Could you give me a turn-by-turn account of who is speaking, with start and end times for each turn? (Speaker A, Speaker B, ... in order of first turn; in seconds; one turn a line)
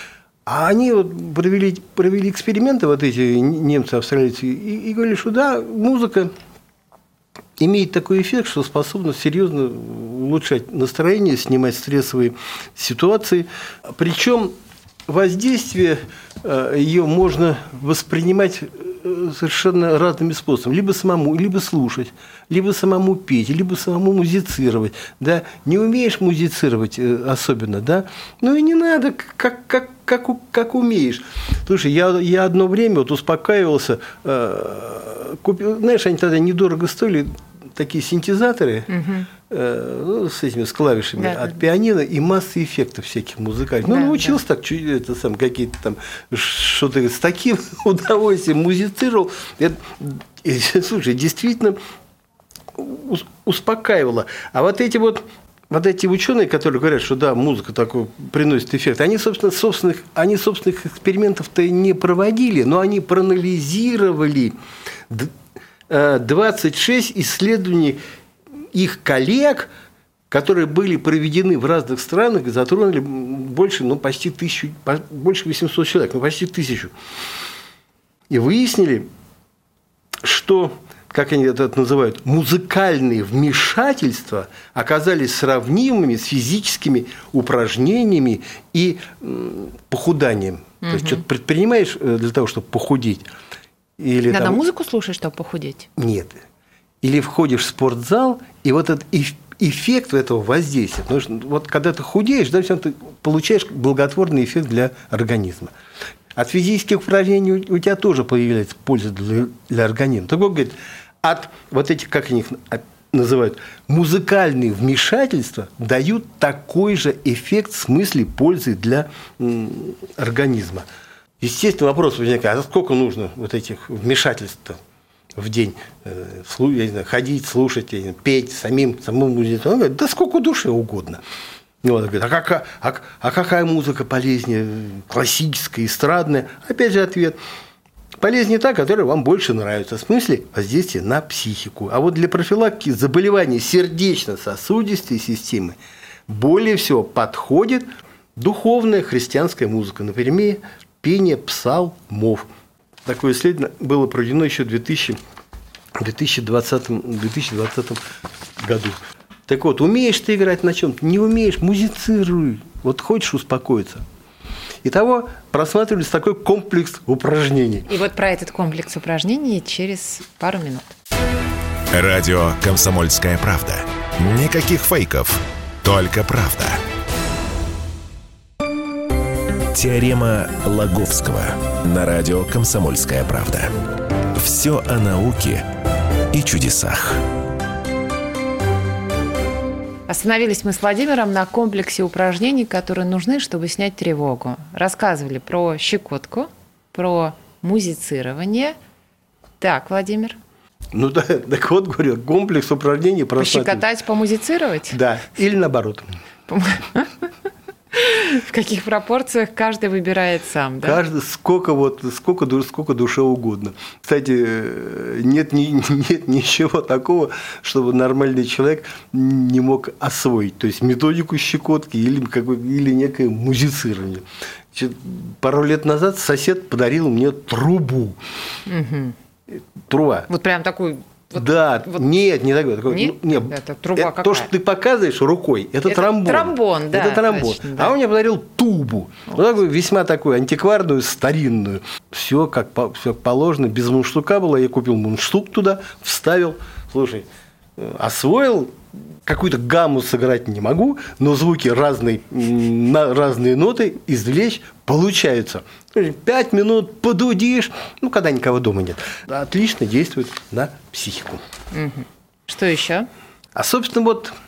Speaker A: 0.5-6.3
Speaker A: 7.6-14.5
Speaker A: 15.1-38.9
Speaker B: 38.9-39.3
Speaker A: 39.5-51.8
Speaker B: 41.2-41.6
Speaker B: 43.8-44.4
Speaker A: 52.8-64.5
Speaker A: 65.9-68.0
Speaker A: 68.7-69.7
Speaker A: 70.3-76.9
Speaker A: 78.3-79.1
Speaker A: 80.2-93.3
Speaker B: 90.8-91.2
Speaker A: 94.0-94.6
Speaker B: 94.3-95.9
Speaker A: 96.0-96.4
Speaker A: 97.0-105.7
Speaker A: 106.3-120.9
Speaker A: 121.4-124.8
Speaker A: 125.3-131.2
Speaker A: 131.8-137.4
Speaker A: 138.2-145.8
Speaker A: 146.3-152.5
Speaker A: 153.1-155.2
Speaker A: 156.0-158.0
Speaker A: 158.6-164.0
Speaker A: 164.8-167.9
Speaker B: 167.9-170.9
Speaker C: 171.9-176.8
Speaker C: 179.7-183.7
Speaker C: 184.3-185.7
Speaker C: 186.3-187.2
Speaker B: 190.1-198.8
Speaker B: 199.6-200.4
Speaker A: 200.9-203.8
Speaker B: 203.4-205.0
Speaker A: 204.9-206.1
Speaker B: 206.5-207.1
Speaker B: 207.9-211.0
Speaker A: 210.8-228.2
Speaker B: 228.7-229.2
Speaker A: 229.5-230.3
Speaker B: 230.3-232.1
Speaker A: 231.3-261.4
Speaker B: 232.9-234.5
Speaker B: 235.8-237.9
Speaker B: 261.7-263.1
Speaker A: 263.6-264.3